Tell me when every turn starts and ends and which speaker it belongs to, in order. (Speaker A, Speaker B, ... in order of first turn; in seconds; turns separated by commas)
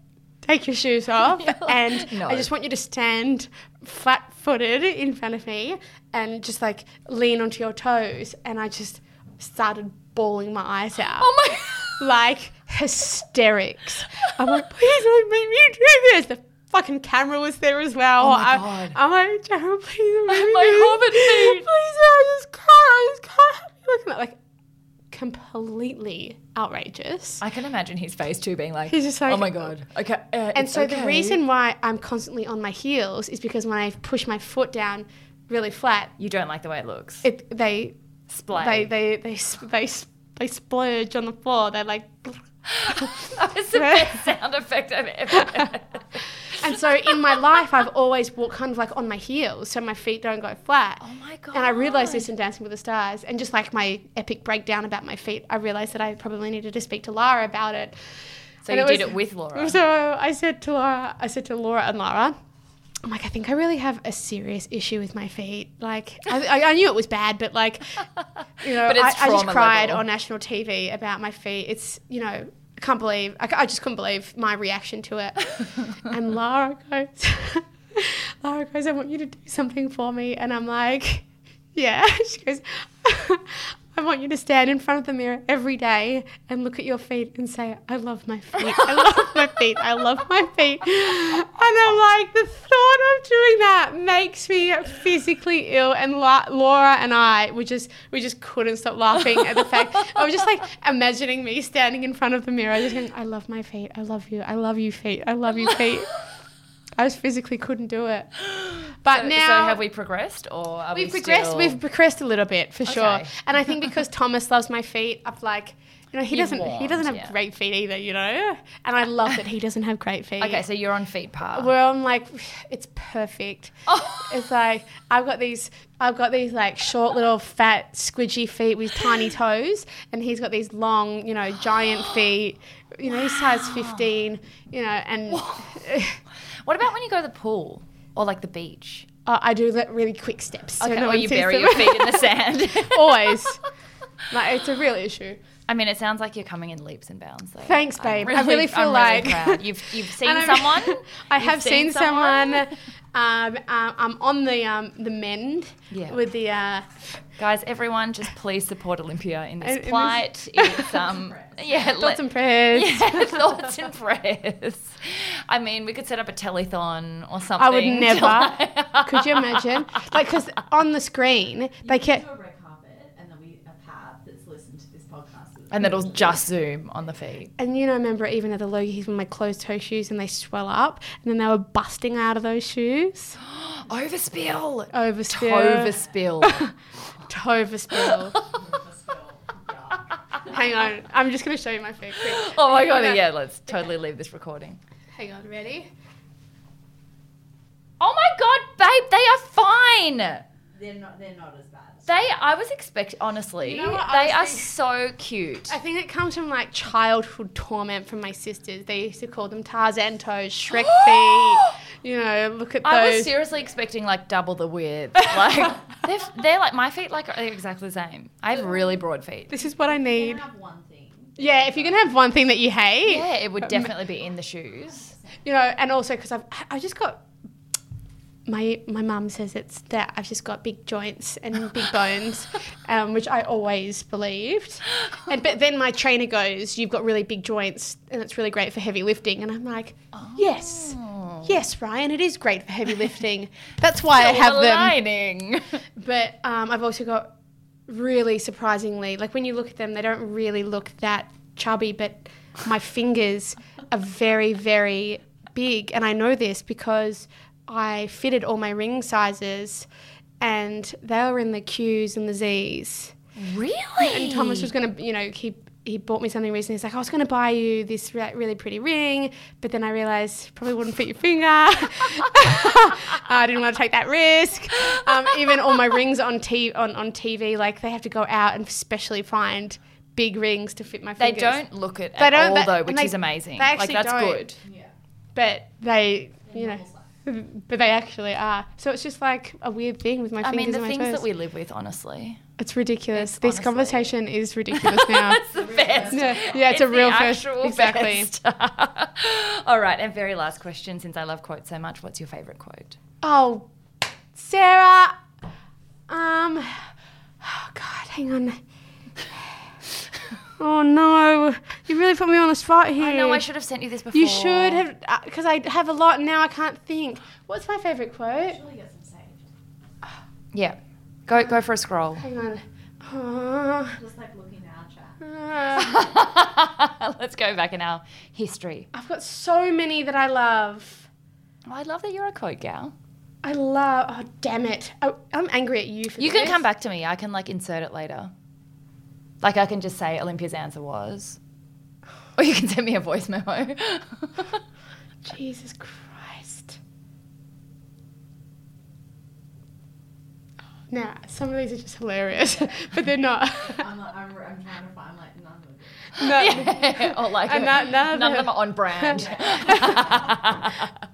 Speaker A: 0.4-11.3, Speaker B: 1.2-2.5, Speaker B: 11.1-12.0, Speaker A: 11.9-24.4, Speaker B: 18.2-19.0, Speaker B: 20.3-21.7, Speaker A: 25.1-27.4, Speaker B: 27.4-31.4, Speaker A: 28.9-29.7, Speaker A: 30.5-36.1, Speaker B: 36.2-37.2, Speaker A: 37.2-38.0, Speaker B: 38.3-38.9, Speaker A: 38.5-44.3, Speaker B: 42.6-46.8, Speaker A: 45.4-45.7, Speaker A: 46.5-51.0, Speaker B: 51.0-52.3, Speaker A: 51.5-58.0, Speaker B: 58.6-59.8, Speaker A: 58.7-62.3, Speaker A: 63.0-68.0, Speaker A: 68.6-106.1, Speaker B: 68.6-70.1, Speaker A: 107.0-108.3, Speaker B: 108.4-111.8, Speaker A: 109.0-109.8, Speaker A: 110.9-120.6, Speaker B: 112.8-113.3, Speaker B: 116.3-117.3, Speaker B: 120.4-121.7, Speaker A: 121.5-136.2, Speaker B: 123.9-124.3, Speaker B: 133.1-134.1, Speaker B: 135.3-135.9, Speaker B: 136.7-139.1, Speaker A: 139.2-143.6, Speaker B: 140.8-143.5, Speaker A: 144.3-145.4, Speaker B: 145.7-152.7, Speaker A: 147.6-156.9, Speaker B: 155.9-156.2, Speaker B: 157.4-170.1, Speaker A: 159.6-160.9, Speaker C: 160.8-161.9, Speaker A: 161.9-163.7, Speaker A: 167.6-172.2, Speaker C: 171.8-176.4, Speaker B: 175.7-177.5, Speaker A: 177.6-183.4, Speaker B: 183.4-186.7, Speaker A: 184.9-186.7, Speaker C: 185.8-186.1, Speaker A: 187.3-188.4, Speaker B: 187.9-188.5, Speaker C: 188.4-190.9, Speaker A: 190.5-193.2, Speaker B: 192.2-194.8, Speaker A: 195.1-195.9, Speaker B: 198.0-200.4, Speaker C: 200.7-202.1, Speaker B: 202.1-205.8, Speaker A: 203.6-204.7, Speaker A: 205.7-213.3, Speaker B: 210.7-211.8, Speaker B: 212.8-219.5, Speaker A: 219.5-220.4, Speaker C: 219.5-222.4, Speaker A: 221.4-223.9, Speaker B: 223.0-225.1, Speaker A: 225.4-227.2, Speaker A: 228.4-245.0, Speaker B: 240.1-241.6, Speaker B: 244.1-245.8, Speaker A: 245.9-247.3, Speaker A: 247.9-259.9, Speaker A: 260.4-263.1, Speaker B: 263.4-264.7, Speaker A: 264.0-281.6, Speaker B: 281.2-284.6, Speaker A: 282.2-284.5, Speaker C: 284.6-284.9, Speaker A: 285.3-291.2, Speaker C: 286.5-287.1, Speaker B: 290.4-292.4, Speaker A: 292.6-295.4, Speaker B: 293.1-294.1, Speaker B: 294.7-303.0, Speaker C: 295.5-296.6, Speaker A: 296.0-298.3, Speaker A: 303.2-303.7, Speaker A: 304.3-305.2, Speaker A: 306.1-306.9, Speaker A: 307.4-308.6, Speaker A: 309.2-309.7, Speaker A: 310.6-313.4, Speaker B: 313.0-314.9, Speaker A: 314.1-318.6, Speaker C: 318.4-319.5, Speaker B: 320.5-322.3, Speaker A: 322.2-324.0, Speaker C: 323.9-325.3, Speaker A: 325.2-326.1, Speaker B: 325.7-328.9, Speaker A: 328.9-331.1, Speaker B: 331.6-332.9, Speaker A: 333.4-336.6, Speaker B: 336.2-338.3, Speaker B: 339.4-341.4, Speaker B: 342.4-344.6, Speaker A: 345.2-346.8, Speaker A: 350.9-353.9, Speaker C: 353.6-356.4, Speaker A: 356.1-360.1, Speaker B: 356.2-360.9, Speaker C: 359.2-360.5